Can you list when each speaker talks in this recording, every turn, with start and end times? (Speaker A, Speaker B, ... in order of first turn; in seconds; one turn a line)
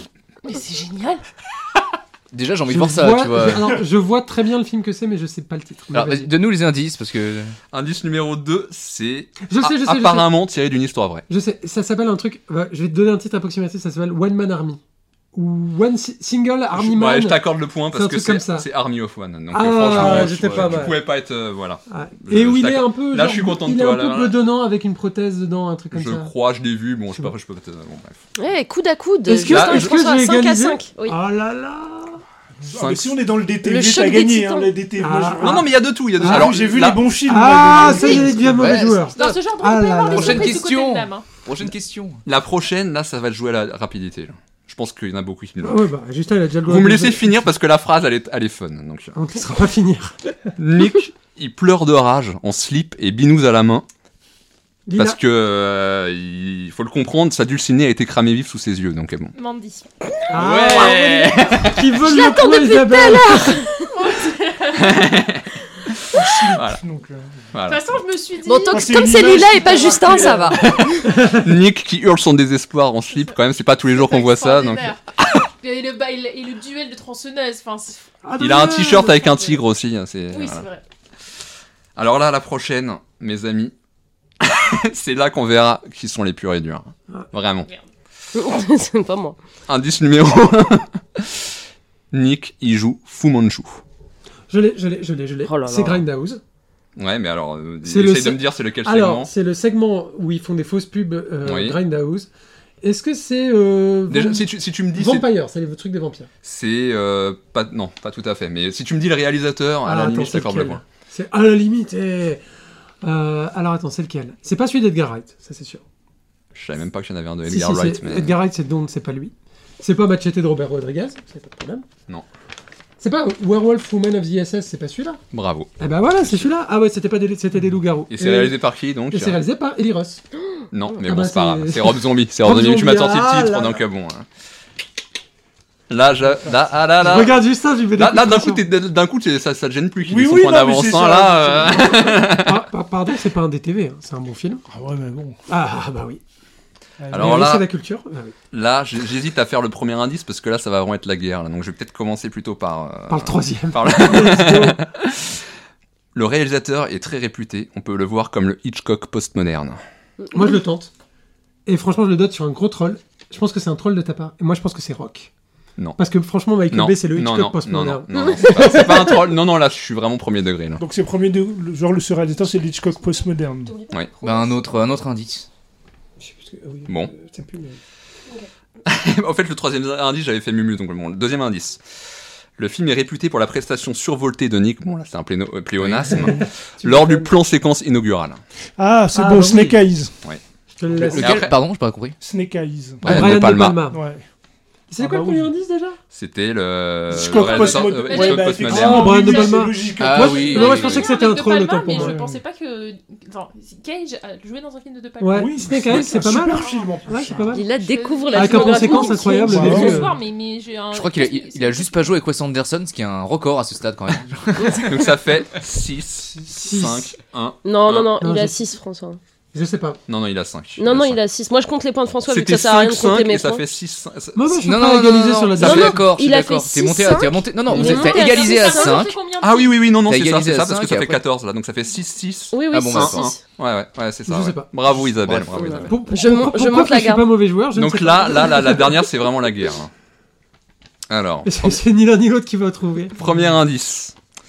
Speaker A: 0.5-1.2
Speaker B: 2.3-3.6
Speaker C: 2.7-6.3
Speaker B: 5.9-7.5
Speaker D: 7.7-11.3
Speaker C: 9.4-10.4
Speaker C: 11.3-14.8
Speaker C: 15.3-18.7
Speaker D: 16.7-24.4
Speaker C: 19.5-21.1
Speaker B: 19.9-20.7
Speaker C: 21.9-26.3
Speaker D: 25.9-28.2
Speaker E: 28.4-31.2
Speaker C: 29.2-32.2
Speaker D: 29.5-29.9
Speaker F: 32.7-35.7
Speaker D: 32.8-33.1
Speaker E: 33.6-34.8
Speaker C: 35.0-40.5
Speaker D: 35.4-37.1
Speaker F: 36.2-38.8
Speaker E: 37.9-38.2
Speaker B: 38.4-39.5
Speaker A: 39.1-41.2
Speaker B: 40.1-42.2
Speaker D: 42.3-45.9
Speaker C: 45.6-47.3
Speaker D: 46.6-49.2
Speaker C: 49.1-50.5
Speaker D: 50.6-53.9
Speaker C: 54.9-55.2
Speaker D: 55.0-59.3
Speaker A: 59.4-59.9
Speaker C: 60.3-63.6
Speaker B: 60.3-61.1
Speaker D: 61.1-61.8
Speaker E: 62.0-63.9
Speaker A: 63.9-65.0
Speaker D: 64.8-65.9
Speaker F: 66.1-67.5
Speaker D: 66.5-66.8
Speaker D: 67.5-67.8
Speaker A: 67.7-70.4
Speaker E: 68.4-71.2
Speaker F: 68.7-71.0
Speaker D: 70.7-75.4
Speaker C: 71.2-71.5
Speaker A: 73.8-78.0
Speaker C: 78.2-79.6
Speaker D: 78.4-80.7
Speaker A: 80.3-80.8
Speaker D: 82.0-83.7
Speaker D: 84.4-87.7
Speaker E: 88.4-89.4
Speaker D: 89.7-91.4
Speaker D: 92.1-93.8
Speaker C: 94.5-96.4
Speaker E: 95.4-96.0
Speaker D: 97.0-99.3
Speaker C: 97.8-102.3
Speaker D: 101.4-101.8
Speaker C: 102.8-106.3
Speaker D: 104.1-105.3
Speaker D: 106.4-110.8
Speaker C: 109.8-112.4
Speaker C: 113.0-115.8
Speaker D: 116.5-118.4
Speaker C: 117.5-121.8
Speaker C: 123.0-125.2
Speaker D: 125.3-126.5
Speaker C: 125.8-130.2
Speaker D: 128.1-129.4
Speaker E: 130.4-131.1
Speaker D: 130.7-134.3
Speaker C: 131.1-133.8
Speaker D: 135.9-142.6
Speaker C: 137.0-138.6
Speaker F: 140.0-142.0
Speaker C: 142.2-144.6
Speaker F: 144.7-145.4
Speaker C: 145.5-146.2
Speaker F: 147.0-147.4
Speaker D: 147.1-147.7
Speaker C: 147.2-148.3
Speaker D: 148.5-155.3
Speaker C: 153.1-154.8
Speaker D: 156.1-159.8
Speaker C: 160.3-160.9
Speaker C: 161.7-165.3
Speaker C: 166.0-168.1
Speaker D: 166.7-170.8
Speaker E: 168.1-169.2
Speaker F: 170.8-173.8
Speaker E: 173.7-174.6
Speaker D: 173.9-174.2
Speaker B: 174.2-175.5
Speaker C: 176.2-177.8
Speaker D: 176.9-177.1
Speaker D: 178.8-181.8
Speaker D: 182.6-188.4
Speaker B: 185.8-186.2
Speaker C: 186.1-187.4
Speaker F: 188.8-190.1
Speaker C: 189.1-189.8
Speaker C: 190.7-191.4
Speaker F: 191.0-191.3
Speaker D: 191.1-191.6
Speaker B: 191.2-192.2
Speaker F: 192.2-193.4
Speaker B: 193.0-193.3
Speaker D: 193.1-193.8
Speaker C: 193.1-194.0
Speaker F: 193.9-194.2
Speaker C: 194.9-196.0
Speaker F: 195.0-195.5
Speaker D: 196.1-199.3
Speaker F: 197.1-201.1
Speaker A: 197.4-199.1
Speaker C: 198.7-199.9
Speaker B: 200.0-201.1
Speaker A: 200.3-207.0
Speaker C: 200.6-202.2
Speaker F: 201.9-202.4
Speaker C: 205.2-207.7
Speaker F: 205.3-207.6
Speaker E: 207.5-210.1
Speaker A: 207.7-212.1
Speaker C: 208.3-210.1
Speaker F: 209.5-210.1
Speaker B: 210.9-214.8
Speaker E: 214.7-215.1
Speaker D: 214.8-218.2
Speaker F: 216.2-216.7
Speaker C: 216.6-217.2
Speaker E: 217.6-219.2
Speaker C: 218.2-218.6
Speaker C: 219.5-220.0
Speaker D: 220.1-221.2
Speaker E: 220.8-223.7
Speaker D: 222.2-224.7
Speaker C: 224.3-226.0
Speaker B: 224.7-229.2
Speaker D: 225.5-225.9
Speaker E: 225.6-229.1
Speaker A: 227.7-230.0
Speaker D: 229.4-236.0
Speaker B: 230.0-231.2
Speaker E: 232.5-233.4
Speaker B: 232.7-233.3
Speaker C: 234.2-235.1
Speaker B: 235.2-235.6
Speaker E: 235.5-237.3
Speaker C: 235.9-239.0
Speaker D: 237.7-239.9
Speaker D: 241.1-241.8
Speaker C: 241.4-243.6
Speaker D: 243.2-244.2